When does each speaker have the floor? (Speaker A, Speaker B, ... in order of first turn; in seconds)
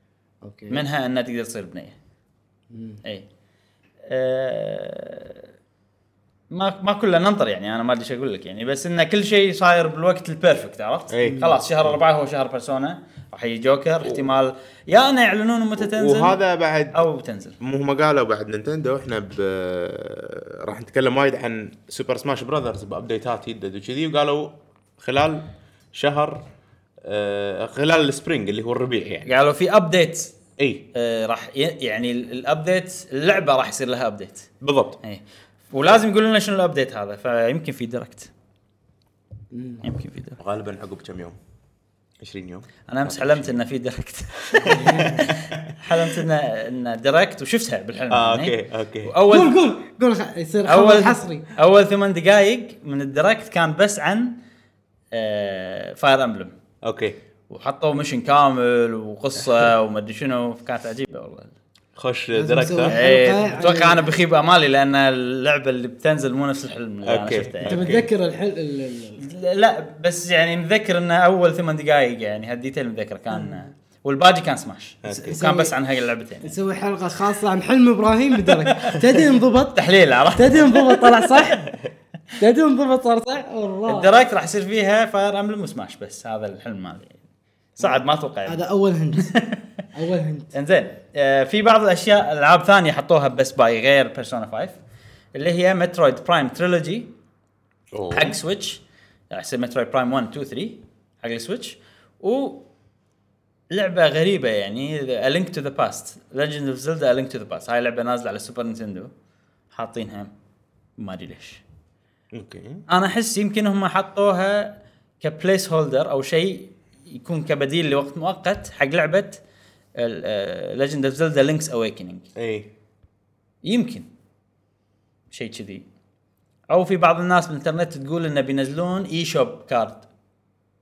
Speaker A: 0.4-0.8, 2.7-3.0, 11.2-11.6, 39.5-39.8, 44.7-45.2, 49.3-51.5, 62.3-64.1, 67.6-69.2, 75.1-75.8, 76.4-79.8, 80.3-81.7, 82.4-84.1, 87.8-89.4, 89.9-90.5
Speaker B: 0.7-1.9, 4.0-5.4, 6.5-16.4, 16.9-17.6, 29.2-30.3, 30.9-34.5, 35.0-38.3, 39.8-40.4, 42.9-49.6, 50.6-54.4, 55.1-56.5, 57.5-61.5, 62.9-67.9, 69.2-76.5, 78.4-79.2, 79.7-81.6, 83.9-87.2, 87.8-88.6, 89.2-89.7, 90.5-94.8, 95.3-97.1, 98.1-102.6, 103.7-109.1, 109.7-110.3, 111.0-111.6, 112.9-119.4, 120.0-122.2, 123.6-124.1, 125.3-125.8, 126.7-130.1
Speaker C: 11.1-12.0, 15.8-17.1, 17.6-26.4, 27.0-29.3, 30.6-30.9, 34.6-35.0, 40.4-41.4, 42.2-43.5, 44.5-46.2, 48.1-49.1, 56.8-57.2, 62.0-62.9, 67.0-68.1, 75.0-75.4, 97.9-98.3, 112.3-112.8, 122.3-122.7